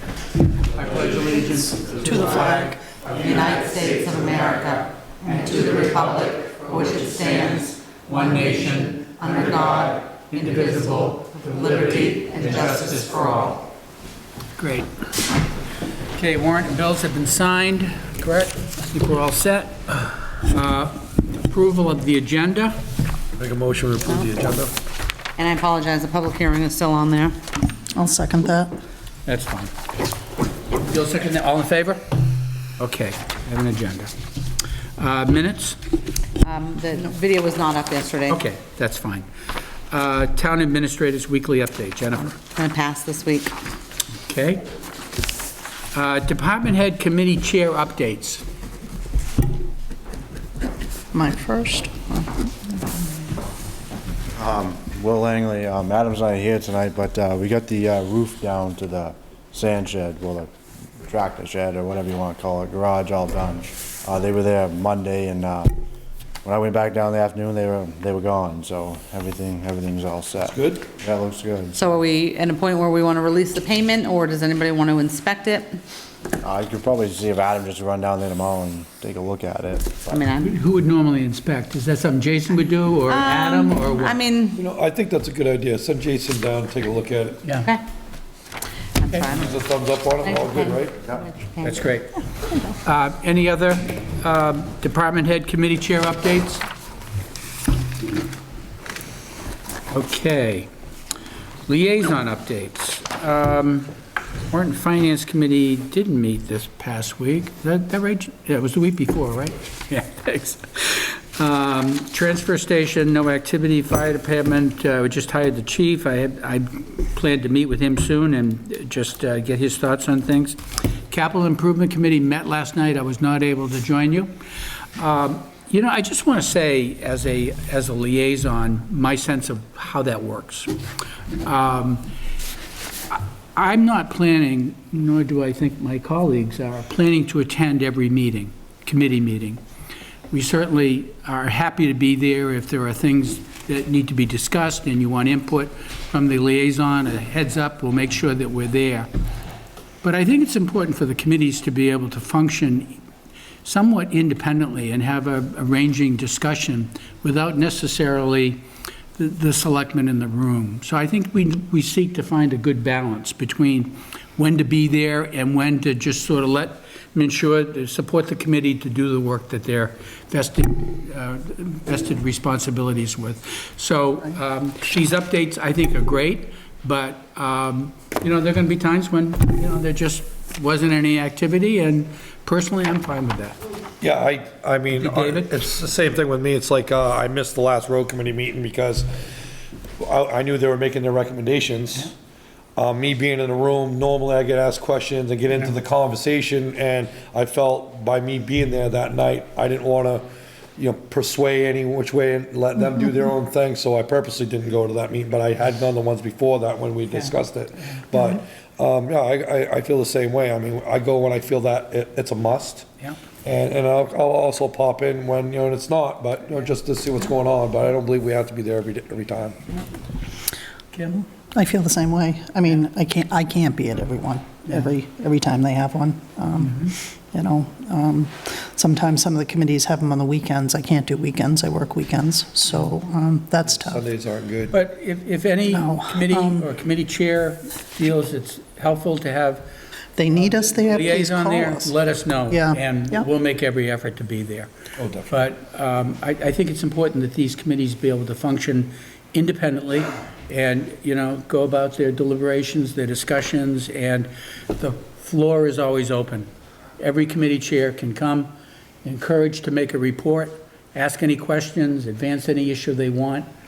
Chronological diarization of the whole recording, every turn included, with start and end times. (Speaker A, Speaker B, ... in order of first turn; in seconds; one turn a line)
Speaker A: 0.7-13.5
Speaker B: 2.0-2.7
Speaker C: 3.1-7.7
Speaker C: 9.2-13.6
Speaker A: 14.6-14.9
Speaker A: 16.1-22.8
Speaker D: 23.4-24.7
Speaker C: 24.1-24.4
Speaker C: 25.4-27.4
Speaker B: 27.9-28.7
Speaker A: 29.2-29.7
Speaker A: 30.8-32.1
Speaker A: 32.8-34.1
Speaker A: 35.0-35.8
Speaker C: 36.4-38.4
Speaker A: 38.3-39.2
Speaker A: 39.9-42.4
Speaker C: 42.5-43.5
Speaker A: 44.2-44.6
Speaker A: 45.9-48.4
Speaker B: 51.1-53.0
Speaker E: 54.3-65.8
Speaker E: 66.4-71.9
Speaker D: 70.4-70.8
Speaker C: 71.7-75.8
Speaker E: 76.4-80.2
Speaker C: 80.1-80.5
Speaker A: 80.4-84.2
Speaker C: 83.1-84.6
Speaker D: 84.6-87.4
Speaker A: 87.4-87.7
Speaker C: 89.0-89.6
Speaker D: 89.2-91.0
Speaker C: 90.2-91.8
Speaker A: 91.6-96.6
Speaker A: 99.9-100.7
Speaker A: 101.7-103.9
Speaker A: 104.5-120.6
Speaker A: 121.1-124.3
Speaker A: 125.0-130.8
Speaker A: 131.4-132.1
Speaker A: 133.1-139.6
Speaker A: 140.3-149.1
Speaker A: 150.0-153.0
Speaker A: 153.7-158.6
Speaker A: 159.2-183.6
Speaker D: 184.0-189.1
Speaker A: 185.0-185.5
Speaker D: 190.0-192.1
Speaker D: 192.8-200.3
Speaker D: 200.8-212.9
Speaker D: 213.4-219.6
Speaker A: 220.9-221.3
Speaker B: 221.5-234.1
Speaker A: 226.6-226.9
Speaker D: 233.8-234.8
Speaker A: 234.7-239.7
Speaker B: 235.7-236.7
Speaker B: 240.2-241.9
Speaker A: 240.5-244.7
Speaker B: 242.5-243.2
Speaker D: 245.0-245.4
Speaker A: 245.3-258.5
Speaker A: 259.0-263.5